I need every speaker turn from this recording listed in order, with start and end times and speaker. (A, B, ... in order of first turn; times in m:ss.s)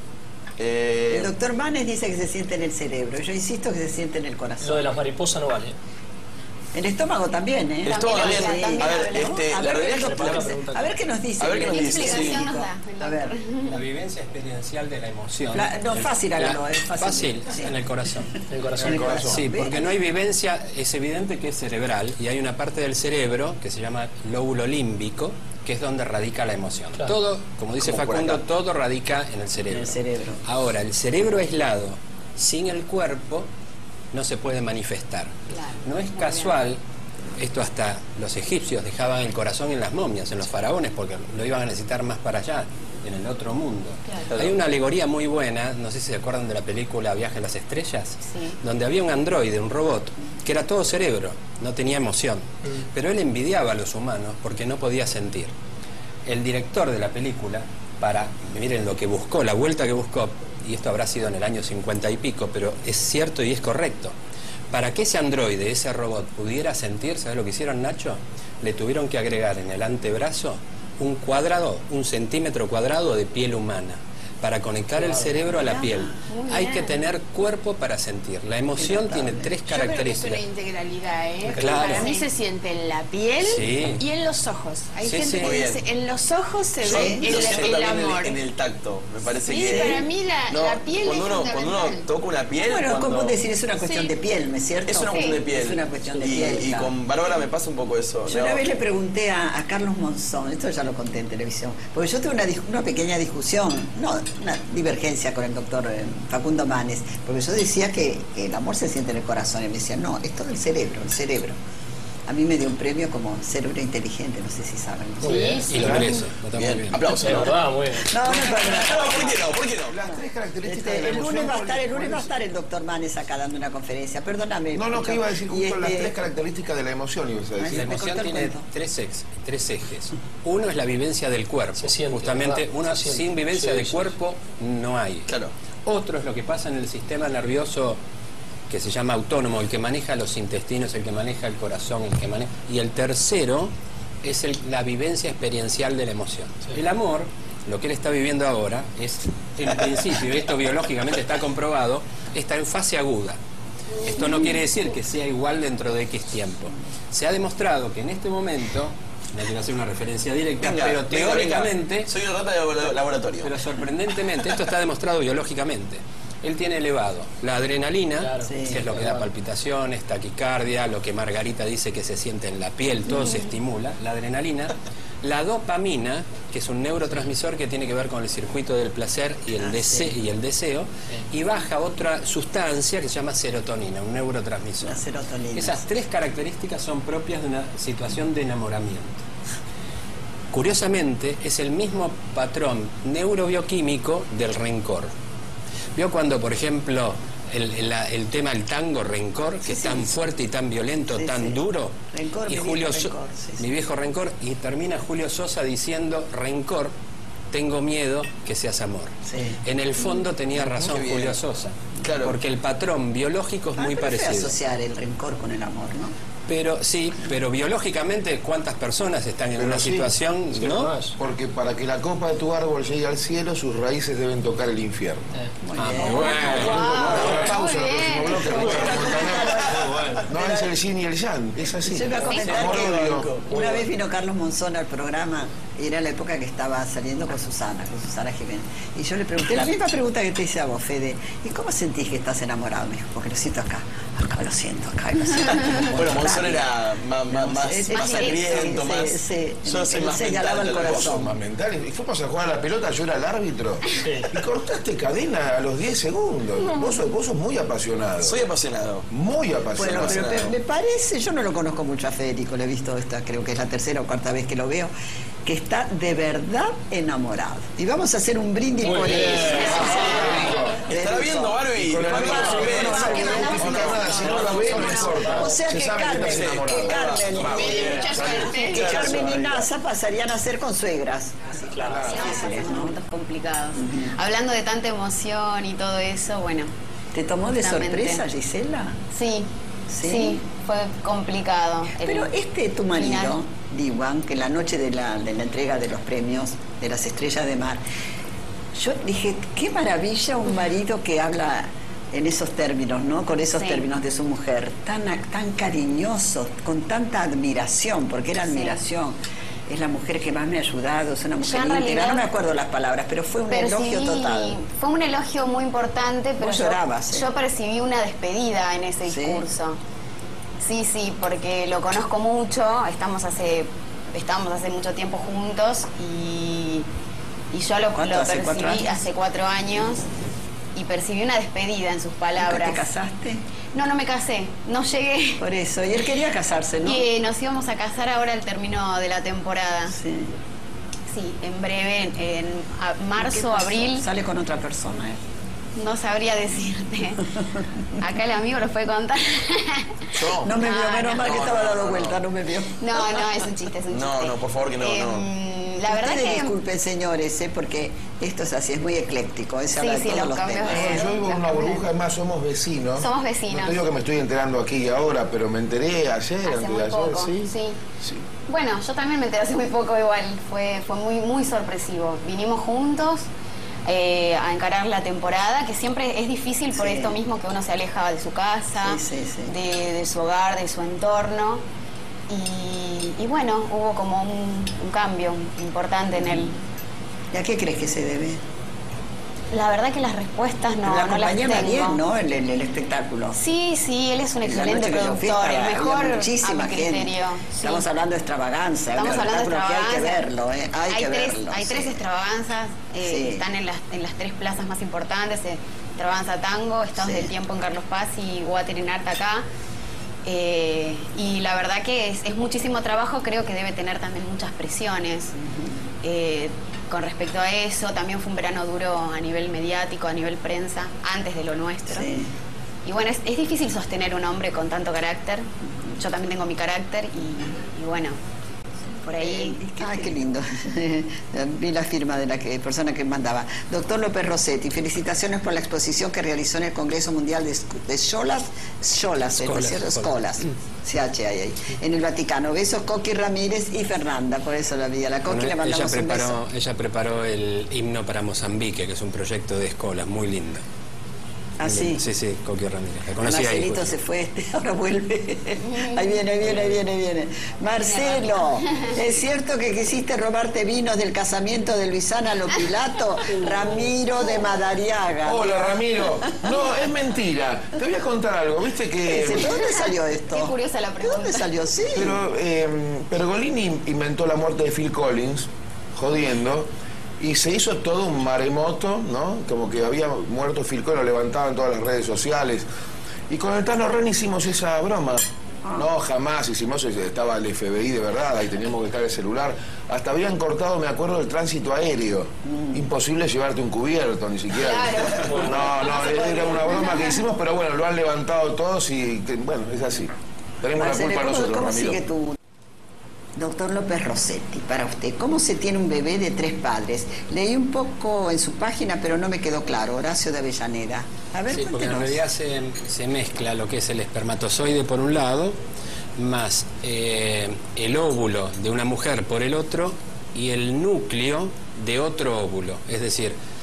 0:00.6-0:01.3 A
0:01.1-0:04.9 B
0:04.6-0:05.8 C
0:06.7-0:13.4 B
0:07.8-0:10.5 A
0:07.9-0:09.4 D
0:10.0-0:10.9 C
0:11.4-0:12.4 A
0:11.6-0:13.8 D
0:13.7-0:33.5 E
0:15.5-0:17.8 B
0:18.5-0:19.4 C
0:18.8-0:19.9 B
0:18.8-0:19.4 F
0:27.8-0:28.4 A
0:29.7-0:30.4 B
0:34.1-0:36.8 E
0:35.5-0:36.5 D
0:37.4-0:55.5 E
0:44.3-0:44.6 A
0:48.3-0:48.6 D
0:56.2-1:04.1 E
1:04.7-1:20.4 E
1:15.0-1:15.3 C
1:15.4-1:16.1 B
1:16.3-1:17.0 D
1:18.7-1:19.5 B
1:19.7-1:28.4 G
1:21.5-1:22.1 E
1:21.6-1:22.0 A
1:23.4-1:24.0 E
1:25.0-1:25.6 E
1:25.4-1:25.8 A
1:26.8-1:33.4 A
1:26.9-1:27.3 B
1:29.4-1:32.0 G
1:29.7-1:30.0 B
1:32.5-1:36.9 B
1:33.8-1:34.1 G
1:34.8-1:38.6 A
1:35.1-1:35.4 D
1:38.3-1:51.6 B
1:52.3-1:55.7 B
1:55.2-1:55.6 C
1:55.2-1:56.2 G
1:55.7-1:57.4 E
1:55.7-1:56.1 F
1:56.5-1:59.9 A
1:57.2-1:58.1 C
1:58.1-1:59.4 B
1:59.9-2:02.3 F
2:00.6-2:06.1 B
2:04.7-2:07.8 F
2:07.6-2:08.6 B
2:07.7-2:15.3 E
2:11.8-2:14.1 C
2:15.3-2:15.5 A
2:15.8-2:18.0 E
2:18.7-2:33.4 E
2:34.0-2:42.1 E
2:40.6-2:43.7 A
2:43.4-3:05.0 E
2:48.2-2:49.3 C
2:48.4-2:48.8 B
2:59.6-3:00.1 B
3:04.8-3:05.8 B
3:05.5-3:09.2 E
3:10.5-3:15.1 E
3:16.0-3:26.9 E
3:19.6-3:20.1 B
3:21.1-3:21.6 B
3:22.1-3:23.6 B
3:27.5-3:34.5 E
3:29.3-3:29.6 B
3:30.7-3:31.4 A
3:32.0-3:32.4 A
3:33.8-3:36.1 B
3:36.5-3:40.9 E
3:39.6-3:40.1 F
3:40.6-3:41.1 C
3:41.2-3:45.3 F
3:45.6-3:46.7 B
3:45.7-3:47.5 E
3:46.4-3:47.5 C
3:46.4-3:53.4 F
3:46.6-3:48.7 D
3:48.4-3:50.7 B
3:48.8-3:49.8 A
3:51.8-4:06.7 B
3:52.2-3:52.5 D
3:52.3-3:53.5 A
3:53.5-3:53.9 C
4:05.8-4:11.2 A
4:07.3-4:11.4 B
4:07.9-4:08.9 D
4:10.7-4:18.4 F
4:14.0-4:14.3 C
4:18.2-4:19.0 A
4:19.1-4:20.5 F
4:19.8-4:24.9 B
4:19.8-4:20.5 A
4:25.4-4:43.0 B
4:28.8-4:30.1 C
4:28.9-4:29.2 A
4:29.5-4:30.9 F
4:30.0-4:30.3 A
4:30.8-4:35.0 A
4:31.7-4:39.5 F
4:32.2-4:33.6 C
4:32.3-4:35.2 D
4:35.0-4:35.5 C
4:36.1-4:39.6 A
4:37.4-4:39.0 G
4:41.7-4:42.2 C
4:41.9-4:42.4 F
4:41.9-4:46.7 D
4:43.7-4:44.1 B
4:47.1-4:49.0 B
4:47.5-4:48.2 D
4:49.1-4:52.3 D
4:49.9-4:50.4 B
4:51.9-4:57.8 B
4:52.9-4:53.4 D
4:58.7-5:14.6 B
5:03.6-5:03.9 D
5:08.4-5:08.8 D
5:11.4-5:12.2 D
5:13.5-5:19.8 D
5:16.4-5:17.3 B
5:19.0-5:19.4 B
5:20.6-5:26.8 D
5:27.5-5:30.0 D
5:27.9-5:28.8 B
5:30.7-5:32.8 D
5:32.4-5:33.4 B
5:33.7-5:35.4 D
5:35.4-5:37.0 B
5:36.8-5:40.0 D
5:39.9-5:40.3 B
5:41.1-5:44.0 D
5:43.2-5:45.2 B
5:45.8-5:47.3 D
5:48.0-5:51.4 D
5:50.1-5:50.6 A
5:50.4-5:53.4 B
5:51.2-5:52.2 A
5:52.8-5:56.6 D
5:53.9-5:55.3 A
5:55.9-6:01.1 B
5:59.8-6:01.9 D
6:00.6-6:08.2 F
6:03.0-6:03.9 D
6:06.4-6:07.8 D
6:08.5-6:13.2 D
6:13.9-6:21.6 D
6:16.7-6:17.2 B
6:18.8-6:19.5 B
6:22.3-6:26.5 D
6:26.2-6:26.5 B
6:27.3-6:28.4 B
6:29.5-6:32.0 D
6:30.8-6:33.4 B
6:33.4-6:37.8 D
6:34.4-6:42.0 B
6:38.9-6:40.2 D
6:40.9-6:49.4 D
6:43.0-6:43.4 B
6:47.0-6:47.3 B
6:50.2-6:55.3 D
6:55.4-6:55.8 B
6:56.0-7:02.1 D
7:01.9-7:02.3 B
7:02.8-7:08.2 D
7:09.0-7:10.2 D
7:09.2-7:26.4 B
7:19.4-7:20.2 E
7:25.3-7:30.6 E
7:31.6-7:32.0 B
7:31.6-7:33.9 E
7:33.2-7:45.7 B
7:35.7-7:36.2 D
7:37.7-7:39.0 D
7:45.2-7:49.6 F
7:49.0-7:52.2 B
7:49.6-7:51.7 D
7:51.9-7:56.7 F
7:57.2-8:02.6 F
8:03.3-8:22.0 F
8:12.4-8:12.8 B
8:14.5-8:17.2 D
8:15.2-8:15.5 C
8:15.9-8:16.6 B
8:20.7-8:22.4 B
8:23.4-8:32.2 B
8:31.5-8:35.6 E
8:36.2-8:43.4 E